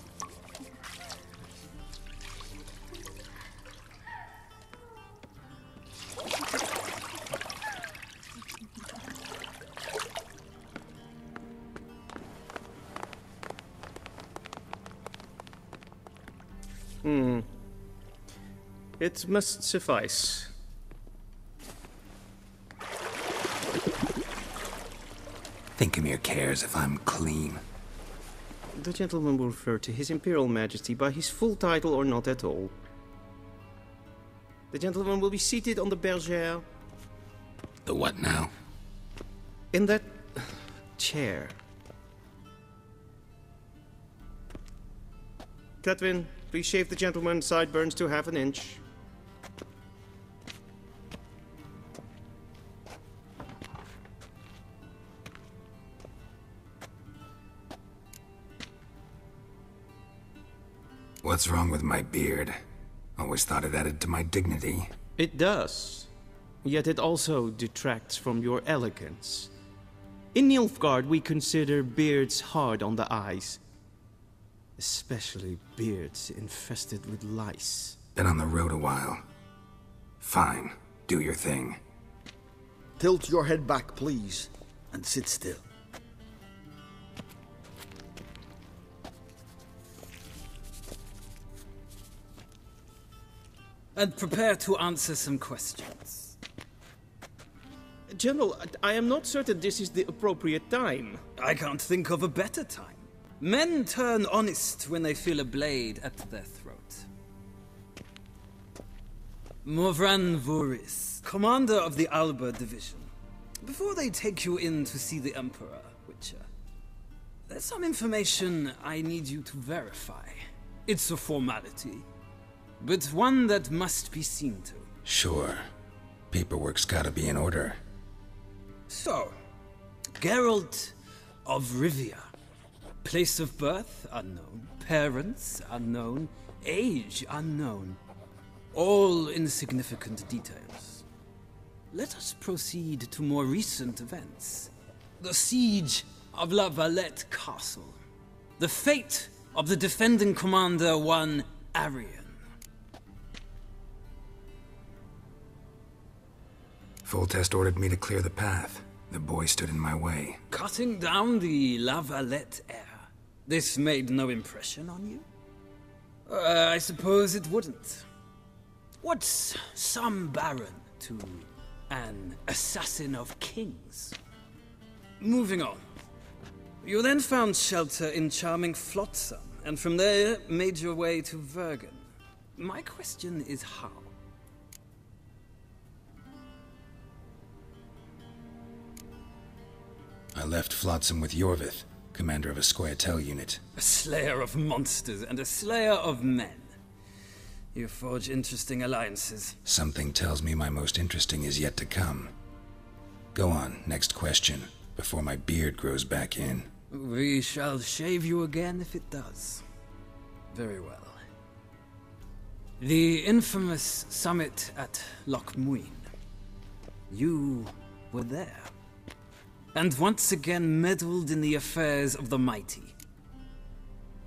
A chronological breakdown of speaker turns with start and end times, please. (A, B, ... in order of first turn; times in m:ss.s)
0:17.0-0:17.5 A
0:19.0-0:20.5 A
0:25.8-0:27.6 B
0:28.7-0:32.7 A
0:34.7-0:36.6 A
0:37.8-0:38.5 B
0:39.7-0:41.6 A
0:45.8-0:48.8 A
1:01.2-1:02.6 B
1:03.2-1:04.9 B
1:05.2-1:06.1 A
1:06.6-1:09.5 A
1:10.3-1:13.6 A
1:14.8-1:18.0 A
1:18.2-1:19.2 B
1:20.2-1:21.8 B
1:23.0-1:25.6 C
1:34.0-1:36.3 D
1:38.1-1:41.2 A
1:41.4-1:47.0 D
1:49.6-1:53.1 D
1:53.6-1:56.4 D
1:57.5-2:02.0 D
2:02.8-2:04.9 D
2:05.0-2:05.7 B
2:06.3-2:07.8 B
2:08.9-2:09.3 D
2:10.2-2:12.3 D
2:13.0-2:18.0 D
2:18.7-2:21.0 D
2:21.9-2:28.0 D
2:28.6-2:32.4 D
2:37.0-2:40.4 B
2:40.5-2:45.2 D
2:46.3-2:48.0 D
2:49.0-2:54.2 D
2:55.2-2:55.8 D
2:56.8-3:04.1 D
3:10.3-3:13.6 B
3:13.8-3:16.7 D
3:17.7-3:19.6 D
3:19.6-3:22.3 B
3:23.3-3:26.7 B
3:26.9-3:29.6 D
3:30.5-3:31.2 D
3:32.8-3:36.1 D
3:37.1-3:38.7 D
3:39.7-3:42.9 D